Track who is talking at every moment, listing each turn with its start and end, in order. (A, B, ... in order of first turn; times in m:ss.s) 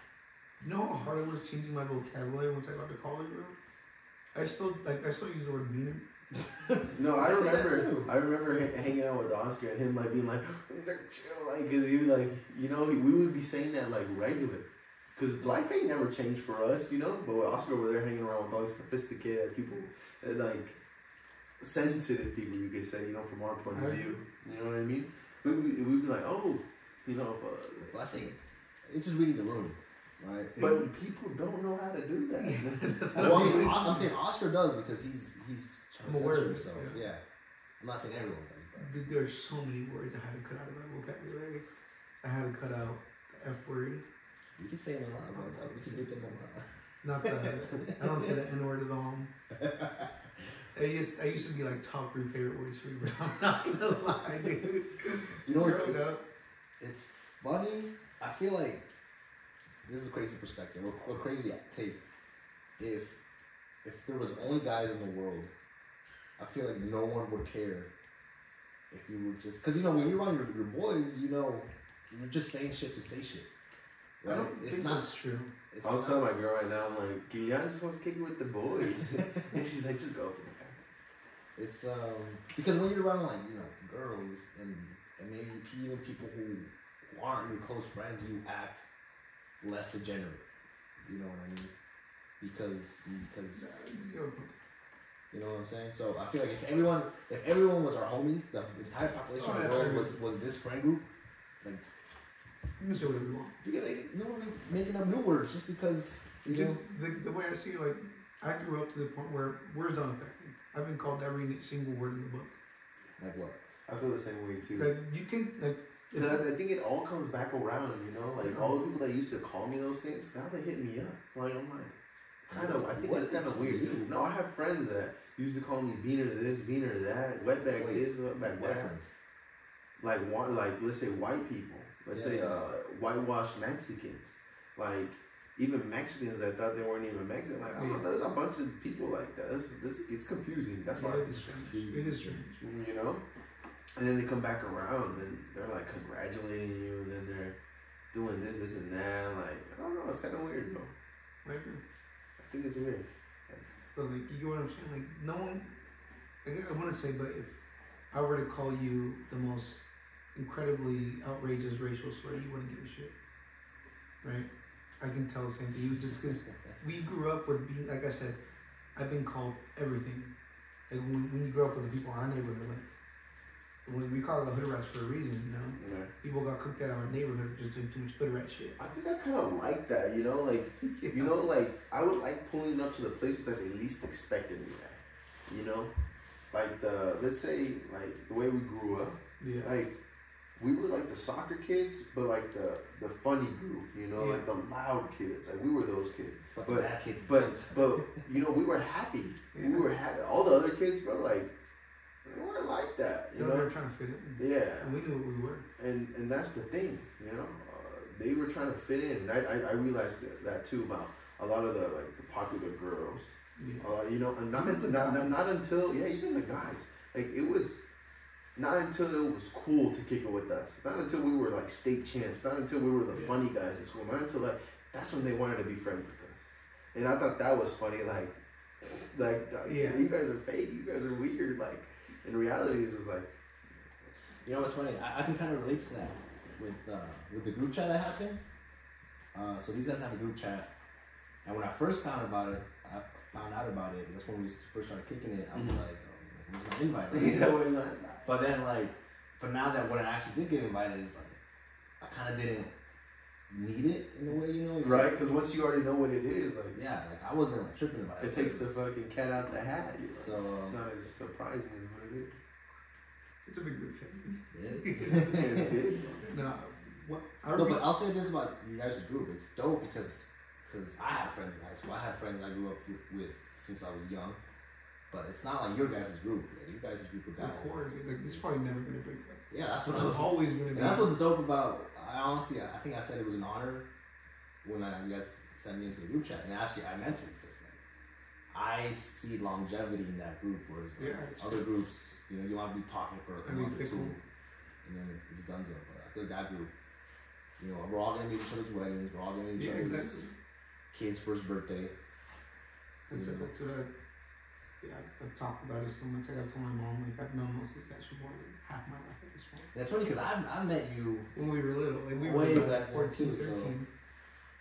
0:00.6-0:03.6 A
0:04.3-0:06.8 A
0:06.9-0:20.8 B
0:07.2-0:08.1 C
0:21.6-0:28.3 B
0:23.7-0:24.2 A
0:27.9-0:30.5 C
0:30.6-0:30.9 A
0:30.6-0:33.7 B
0:32.4-0:34.1 A
0:33.2-0:37.2 C
0:36.0-0:37.0 A
0:37.8-0:38.9 C
0:38.8-0:41.7 A
0:42.2-0:44.0 A
0:44.6-0:48.3 C
0:45.3-0:46.1 A
0:47.0-0:49.3 A
0:49.6-0:50.1 C
0:50.7-0:56.2 A
0:55.4-0:56.2 C
0:56.8-0:58.9 C
0:59.8-1:02.0 C
1:02.8-1:03.2 C
1:03.8-1:05.5 C
1:06.4-1:07.9 C
1:08.9-1:13.5 C
1:14.2-1:15.1 C
1:14.2-1:15.5 A
1:15.7-1:16.3 C
1:15.8-1:20.8 B
1:21.6-1:28.8 C
1:29.6-1:30.4 C
1:31.0-1:31.7 C
1:32.4-1:33.8 C
1:33.6-1:34.5 A
1:35.3-1:41.1 C
1:39.4-1:40.2 A
1:42.8-1:43.6 A
1:43.6-1:46.8 C
1:46.4-1:52.6 A
1:53.2-1:53.6 C
1:53.9-1:54.9 B
1:54.8-1:56.5 A
1:56.1-2:02.0 B
1:58.4-1:58.8 A
2:02.5-2:04.1 C
2:02.5-2:08.9 B
2:07.8-2:09.1 C
2:10.0-2:21.4 B
2:12.1-2:12.6 C
2:17.8-2:18.1 A
2:20.9-2:22.6 A
2:21.3-2:22.4 C
2:22.6-2:23.2 B
2:24.0-2:27.6 B
2:28.1-2:30.9 B
2:31.4-2:31.8 A
2:32.4-2:33.7 B
2:34.0-2:35.7 A
2:36.4-2:37.6 A
2:38.1-2:43.1 A
2:44.2-2:48.4 A
2:49.0-2:50.3 A
2:50.9-2:52.9 A
2:53.9-2:58.8 A
2:55.8-2:56.1 B
2:58.8-3:05.9 B
3:00.8-3:01.4 A
3:06.5-3:10.0 B
3:09.4-3:09.8 A
3:10.6-3:21.5 B
3:14.2-3:14.4 A
3:16.6-3:18.2 C
3:19.6-3:19.9 A
3:22.2-3:23.7 B
3:23.3-3:25.6 A
3:24.4-3:25.0 B
3:25.8-3:37.8 B
3:33.6-3:33.9 A
3:34.5-3:35.4 A
3:38.6-3:53.3 B
3:43.1-3:43.4 A
3:49.6-3:50.1 A
3:54.4-3:58.4 C
3:59.3-4:00.7 C
4:01.4-4:07.5 C
4:05.5-4:05.8 B
4:07.1-4:08.2 B
4:08.2-4:11.4 C
4:12.0-4:12.7 C
4:13.5-4:15.1 C
4:14.8-4:16.8 B
4:16.7-4:18.7 C
4:18.2-4:22.3 B
4:20.2-4:20.8 C
4:23.4-4:25.3 A
4:24.5-4:25.8 C
4:25.1-4:26.2 B
4:26.2-4:27.8 A
4:27.5-4:34.4 C
4:35.1-4:38.6 C
4:37.4-4:41.2 A
4:39.5-4:43.9 C
4:44.6-4:47.8 C
4:48.5-4:54.2 C
4:51.0-4:51.7 A
4:53.4-4:54.2 A
4:54.8-4:56.7 C
4:57.6-5:00.3 C
4:59.6-5:00.3 A
5:00.9-5:02.0 C
5:03.1-5:03.9 A
5:03.1-5:03.5 C
5:04.8-5:09.7 A
5:09.7-5:11.3 C
5:11.3-5:13.9 A
5:12.2-5:13.7 C